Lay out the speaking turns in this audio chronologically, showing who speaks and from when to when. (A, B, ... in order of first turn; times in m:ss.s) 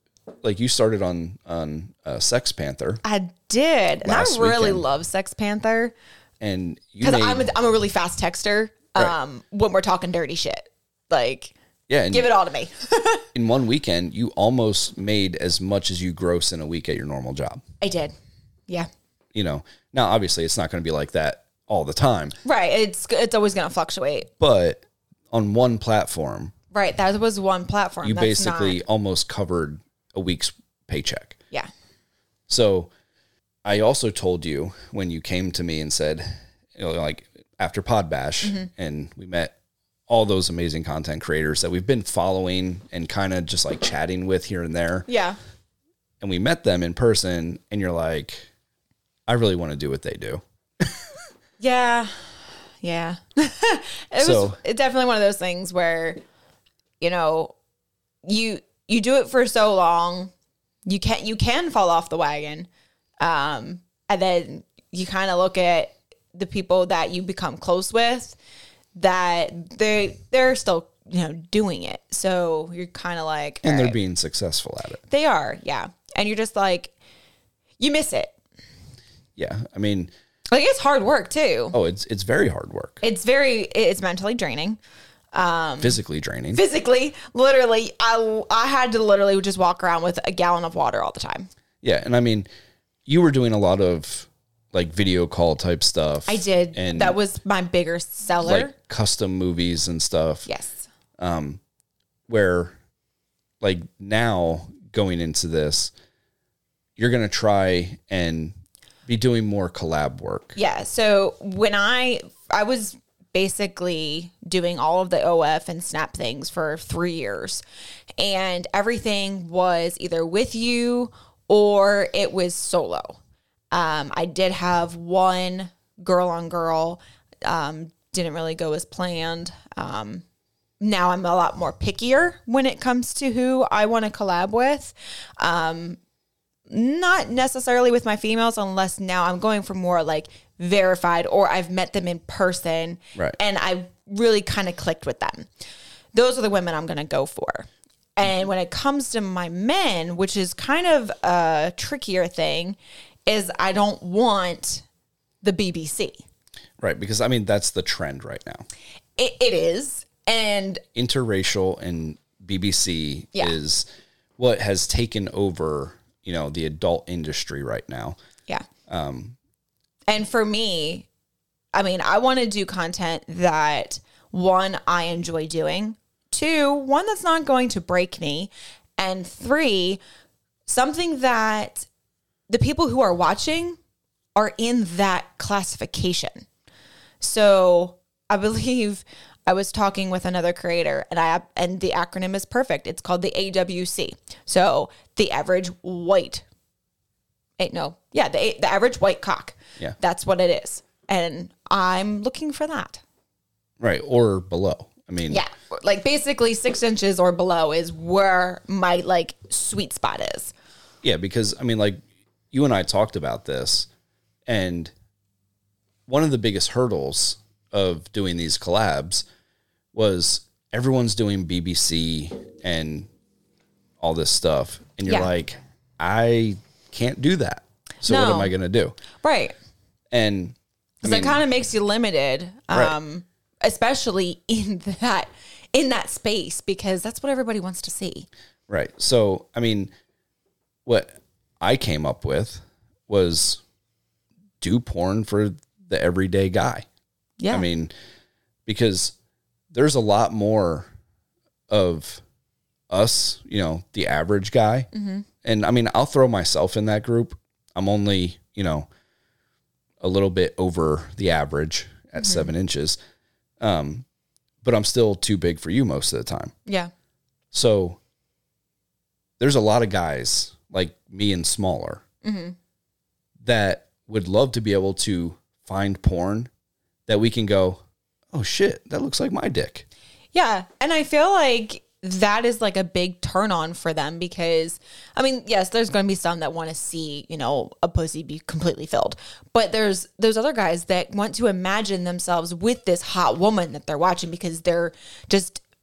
0:00.4-0:03.0 A
0:03.0-0:05.9 B
0:04.0-0:04.8 A
0:06.4-0:07.5 A
0:07.0-0:11.5 B
0:11.9-0:12.3 A
0:12.1-0:13.3 B
0:13.3-0:17.6 A
0:17.8-0:18.1 B
0:19.3-0:22.4 A
0:22.4-0:24.3 B
0:24.4-0:26.5 A
0:26.7-0:28.8 B
0:28.0-0:31.4 A
0:32.5-0:32.9 A
0:33.6-0:39.5 A
0:38.4-0:38.7 B
0:40.1-0:45.1 A
0:45.1-0:45.4 B
0:46.2-0:48.5 A
0:49.3-0:51.0 A
0:51.6-0:52.1 B
0:52.8-0:56.2 B
0:54.2-0:54.6 A
0:57.0-0:57.5 B
0:58.2-1:00.3 B
1:00.8-1:02.7 B
1:03.2-1:08.4 B
1:09.0-1:14.0 B
1:13.6-1:15.0 A
1:15.1-1:16.9 B
1:17.8-1:18.4 B
1:19.4-1:20.1 A
1:20.5-1:21.8 B
1:21.7-1:23.0 A
1:23.0-1:24.8 B
1:25.3-1:26.0 B
1:25.8-1:26.6 A
1:26.5-1:31.5 B
1:31.8-1:32.5 A
1:33.0-1:37.2 A
1:36.3-1:38.7 B
1:38.4-1:40.5 A
1:40.4-1:40.9 B
1:41.2-1:41.6 A
1:42.3-1:42.7 A
1:43.6-1:45.9 A
1:47.0-1:48.5 A
1:49.0-1:50.6 A
1:50.6-1:57.6 B
1:58.2-2:03.2 B
2:03.7-2:10.2 B
2:10.8-2:16.0 B
2:16.7-2:25.5 B
2:26.1-2:34.8 B
2:35.4-2:36.2 B
2:36.8-2:38.6 A
2:39.2-2:40.8 B
2:40.9-2:43.8 A
2:44.4-2:48.2 A
2:48.9-2:49.4 A
2:50.1-2:51.1 B
2:51.7-3:00.0 B
3:00.7-3:01.9 B
3:02.5-3:03.8 B
3:04.3-3:06.4 B
3:07.2-3:16.4 B
3:17.6-3:23.0 B
3:23.8-3:25.4 A
3:25.3-3:30.5 B
3:31.0-3:33.9 A
3:34.5-3:34.9 A
3:36.1-3:39.2 A
3:39.9-3:43.1 A
3:44.0-3:49.0 A
3:48.0-3:48.5 B
3:49.2-3:49.5 B
3:50.1-3:51.4 A
3:51.0-3:58.3 B
3:52.7-3:53.0 A
3:58.7-3:59.9 A
4:00.8-4:03.6 A
4:04.6-4:06.8 A
4:07.4-4:07.6 B
4:07.5-4:07.9 A
4:08.6-4:09.1 A
4:09.7-4:10.9 A
4:11.7-4:12.2 A
4:12.9-4:14.9 A
4:14.9-4:15.2 B
4:15.4-4:18.9 A
4:20.0-4:23.0 A
4:22.2-4:22.5 B
4:23.6-4:24.0 A
4:24.6-4:26.5 A
4:26.6-4:26.9 B
4:27.5-4:28.0 A
4:29.4-4:32.0 A
4:32.2-4:32.6 B
4:33.4-4:36.5 A
4:37.1-4:39.8 A
4:40.3-4:55.6 B